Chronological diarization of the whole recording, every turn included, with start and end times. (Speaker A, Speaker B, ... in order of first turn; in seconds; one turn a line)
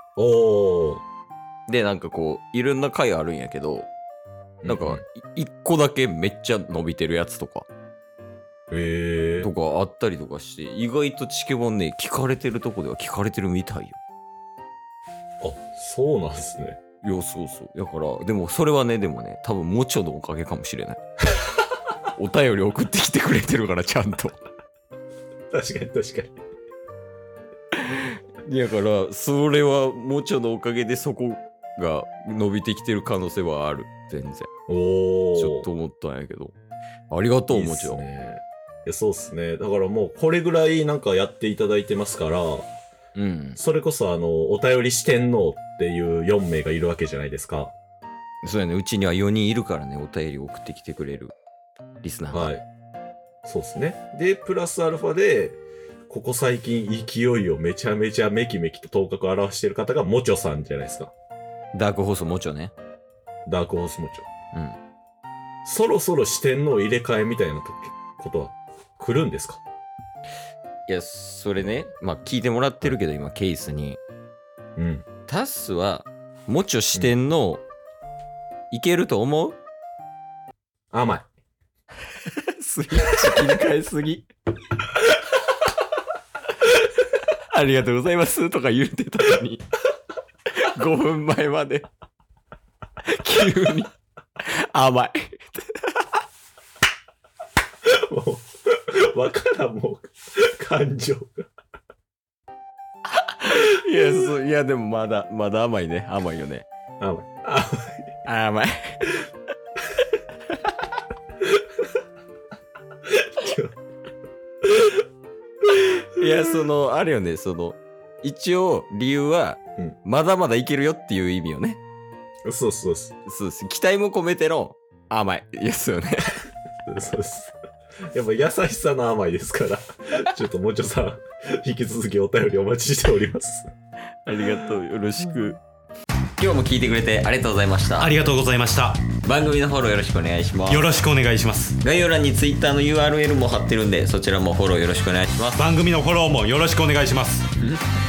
Speaker A: 0.2-1.0
Speaker B: 1.7-3.9
Speaker A: 4.6-5.0
Speaker B: 4.7-7.7
Speaker A: 8.7-9.5
Speaker B: 9.4-14.0
Speaker A: 15.4-16.8
Speaker B: 17.0-21.0
Speaker B: 22.1-24.4
Speaker A: 25.5-26.3
Speaker B: 27.8-34.5
Speaker A: 34.7-35.7
Speaker B: 35.4-36.5
Speaker B: 37.1-38.0
Speaker A: 37.5-42.7
Speaker B: 43.1-43.6
Speaker A: 43.5-47.7
Speaker B: 48.4-51.4
Speaker B: 52.0-52.5
Speaker A: 52.3-52.6
Speaker A: 53.4-61.1
Speaker B: 61.7-62.7
Speaker A: 63.5-64.3
Speaker B: 64.5-64.8
Speaker A: 65.6-69.6
Speaker B: 70.9-74.0
Speaker A: 74.8-75.0
Speaker B: 75.2-77.6
Speaker B: 78.7-79.6
Speaker A: 80.9-81.3
Speaker B: 82.2-84.3
Speaker B: 86.6-89.6
Speaker B: 90.5-91.9
Speaker B: 93.0-96.1
Speaker A: 97.8-101.5
Speaker B: 103.1-106.7
Speaker A: 107.0-108.1
Speaker B: 108.2-109.2
Speaker A: 113.1-113.7
Speaker A: 114.6-115.0
Speaker B: 115.7-121.8
Speaker A: 122.5-123.1
Speaker B: 123.2-126.4
Speaker A: 126.8-127.5
Speaker A: 128.1-133.7
Speaker B: 134.2-135.6
Speaker B: 136.4-138.2
Speaker C: 138.0-139.0
Speaker B: 139.2-140.9
Speaker C: 140.7-141.8
Speaker B: 141.8-145.7
Speaker C: 145.5-147.4